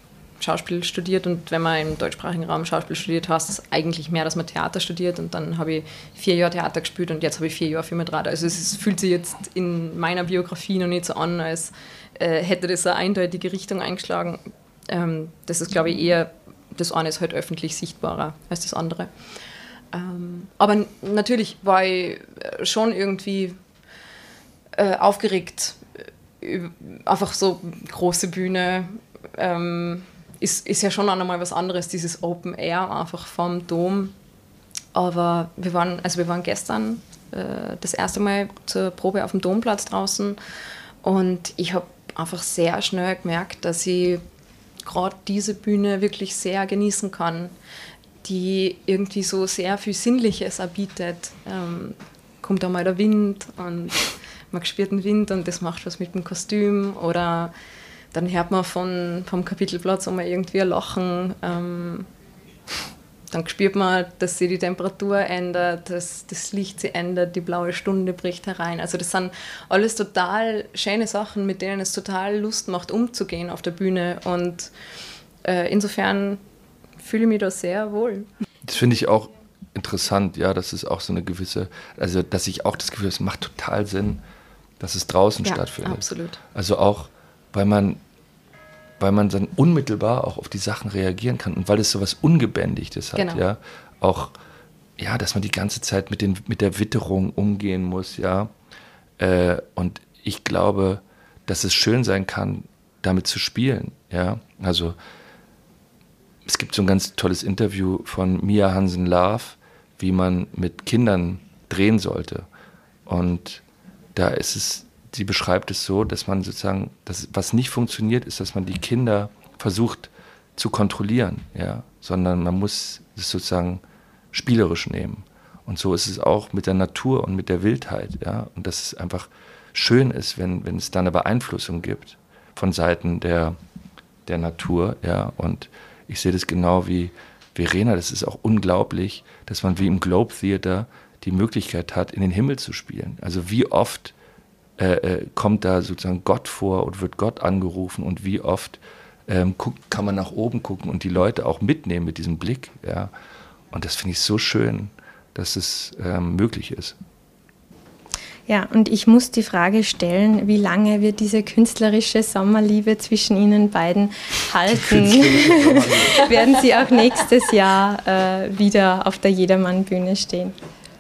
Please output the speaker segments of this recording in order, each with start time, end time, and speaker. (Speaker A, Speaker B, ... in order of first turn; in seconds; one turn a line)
Speaker A: 0.4-19.1
Speaker A: 19.9-23.6
Speaker A: 24.8-25.8
Speaker A: 26.4-34.1
Speaker A: 34.9-40.4
Speaker A: 41.0-44.2
Speaker A: 44.8-47.5
Speaker A: 48.2-57.5
Speaker A: 58.1-62.1
Speaker A: 63.3-74.7
Speaker A: 75.4-76.4
Speaker A: 77.0-78.3
Speaker B: 78.7-84.2
Speaker B: 84.8-88.0
Speaker A: 85.4-86.4
Speaker B: 89.0-94.3
Speaker A: 93.2-93.4
Speaker B: 95.0-98.5
Speaker B: 99.2-105.0
Speaker B: 106.5-112.5
Speaker B: 113.1-113.6
Speaker B: 114.2-123.8
Speaker B: 124.3-133.6
Speaker B: 134.3-144.1
Speaker B: 144.8-153.1
Speaker B: 153.7-157.0
Speaker C: 158.5-170.6
Speaker B: 164.7-166.4